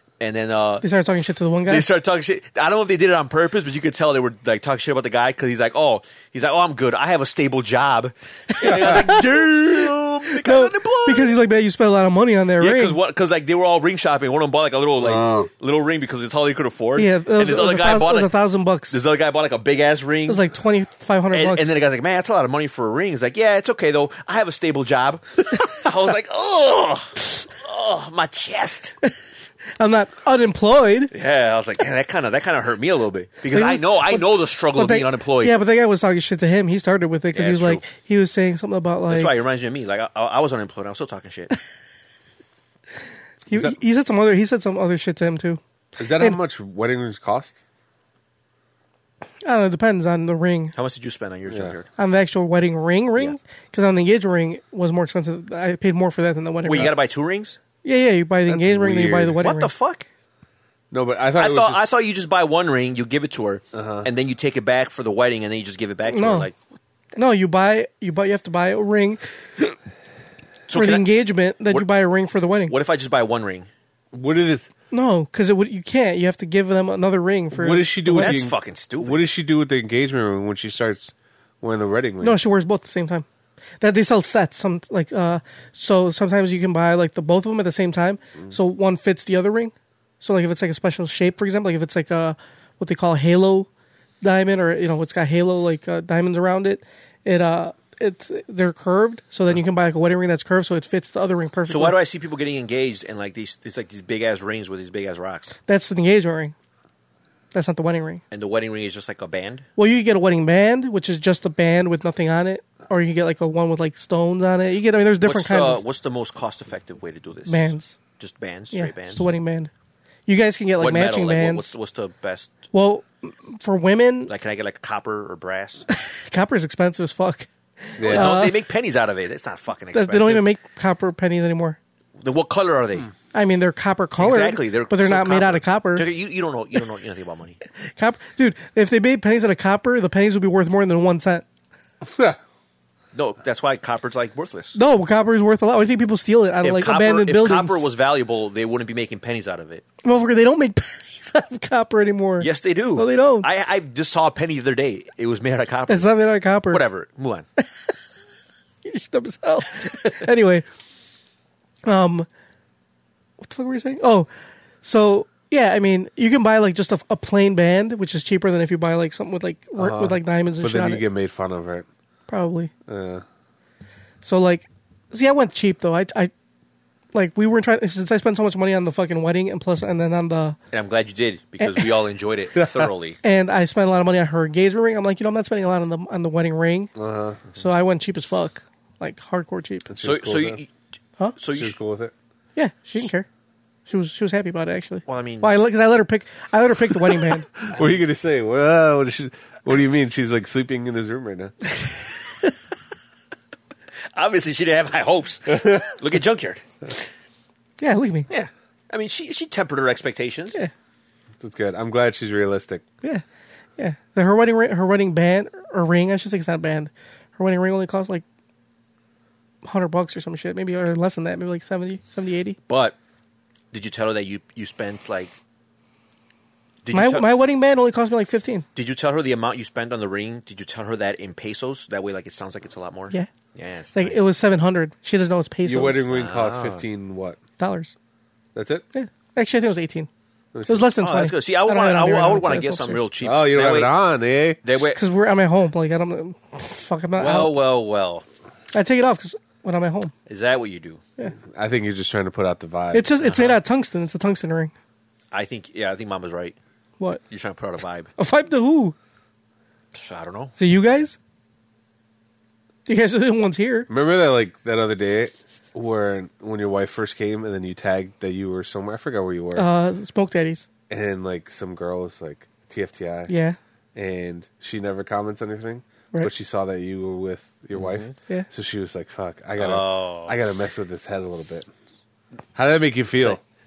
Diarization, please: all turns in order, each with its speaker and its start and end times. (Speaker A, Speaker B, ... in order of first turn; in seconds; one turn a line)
Speaker A: 0.2-0.9
Speaker B: 0.8-1.9
Speaker A: 1.7-11.4
Speaker B: 8.6-9.2
Speaker B: 10.4-13.0
Speaker A: 12.6-18.3
Speaker C: 15.0-15.5
Speaker B: 17.0-19.0
Speaker A: 18.9-20.4
Speaker B: 20.3-21.8
Speaker A: 21.3-29.0
Speaker B: 29.8-31.1
Speaker A: 31.1-35.6
Speaker B: 33.5-39.3
Speaker A: 37.3-37.8
Speaker A: 39.1-41.5
Speaker B: 43.5-45.6
Speaker C: 46.0-47.6
Speaker B: 49.4-50.7
Speaker A: 50.8-51.9
Speaker C: 51.5-51.8
Speaker B: 52.0-56.9
Speaker A: 56.6-57.6
Speaker B: 57.8-59.7
Speaker C: 58.5-59.4
Speaker A: 59.4-60.1
Speaker C: 60.9-61.9
Speaker A: 61.4-66.6
Speaker C: 63.7-64.1
Speaker B: 66.1-66.5
Speaker B: 67.2-69.2
Speaker A: 70.7-71.9
Speaker B: 70.7-72.7
Speaker A: 72.7-73.7
Speaker C: 74.1-74.7
Speaker B: 74.9-78.4
Speaker C: 77.5-82.4
Speaker A: 78.2-79.3
Speaker B: 82.2-83.3
Speaker B: 83.8-93.7
Speaker B: 94.2-102.0
Speaker A: 101.7-105.5
Speaker B: 105.7-106.5
Speaker B: 107.5-108.2
Speaker A: 108.3-109.7
Speaker B: 109.8-115.8
Speaker A: 115.2-119.3
Speaker B: 117.5-118.0
Speaker B: 118.7-119.7
Speaker B: 120.3-121.7
Speaker A: 120.8-122.7
Speaker B: 122.7-124.3
Speaker A: 124.3-125.9
Speaker B: 125.9-128.5
Speaker C: 128.0-128.4
Speaker A: 128.0-130.5
Speaker B: 129.9-131.8
Speaker A: 132.2-133.1
Speaker B: 133.3-136.1
Speaker A: 134.2-137.6
Speaker B: 137.9-141.4
Speaker C: 142.0-142.4
Speaker A: 143.1-144.8
Speaker B: 144.8-147.8
Speaker A: 146.6-149.8
Speaker B: 150.0-153.5
Speaker A: 152.4-157.5
Speaker B: 155.9-156.8
Speaker B: 158.8-160.7
Speaker B: 161.9-162.3
Speaker B: 163.4-164.3
Speaker B: 164.8-171.0
Speaker C: 169.8-171.9
Speaker B: 172.3-172.7
Speaker C: 172.9-173.2
Speaker B: 174.2-176.3
Speaker B: 177.1-180.6
Speaker A: 180.7-183.2
Speaker C: 182.6-182.9
Speaker B: 183.2-186.9
Speaker C: 187.0-187.4
Speaker B: 187.6-189.9
Speaker C: 189.9-190.6
Speaker A: 190.0-190.7
Speaker A: 191.4-191.8
Speaker C: 191.5-192.1
Speaker B: 192.6-193.3
Speaker B: 193.9-197.5
Speaker A: 195.1-195.6
Speaker C: 197.6-201.6
Speaker A: 204.1-206.6
Speaker C: 205.5-205.8
Speaker B: 207.8-208.3
Speaker A: 208.3-210.6
Speaker C: 211.4-212.8
Speaker B: 213.8-218.2
Speaker B: 219.6-222.6
Speaker A: 222.7-223.0
Speaker A: 223.7-225.3
Speaker A: 226.8-227.4
Speaker B: 226.9-228.7
Speaker A: 228.8-234.3
Speaker B: 233.9-236.1
Speaker C: 235.7-237.4
Speaker A: 236.1-236.8
Speaker B: 237.6-237.9
Speaker C: 238.6-238.8
Speaker B: 238.9-240.1
Speaker C: 240.5-240.9
Speaker B: 240.7-243.0
Speaker A: 241.0-244.0
Speaker C: 243.2-244.6
Speaker A: 244.6-245.0
Speaker B: 244.8-247.5
Speaker A: 247.2-248.2
Speaker B: 248.7-250.1
Speaker A: 250.3-251.0
Speaker C: 251.5-253.1
Speaker B: 252.9-254.7
Speaker A: 253.2-253.6
Speaker A: 255.3-256.6
Speaker A: 257.3-258.1
Speaker B: 258.2-259.0
Speaker A: 259.9-260.6
Speaker B: 260.6-261.2
Speaker B: 262.9-263.9
Speaker C: 263.9-269.7
Speaker B: 269.6-270.7
Speaker C: 270.9-273.3
Speaker B: 273.3-273.6
Speaker C: 273.9-281.7
Speaker A: 277.8-278.1
Speaker A: 279.6-280.4
Speaker C: 282.6-283.4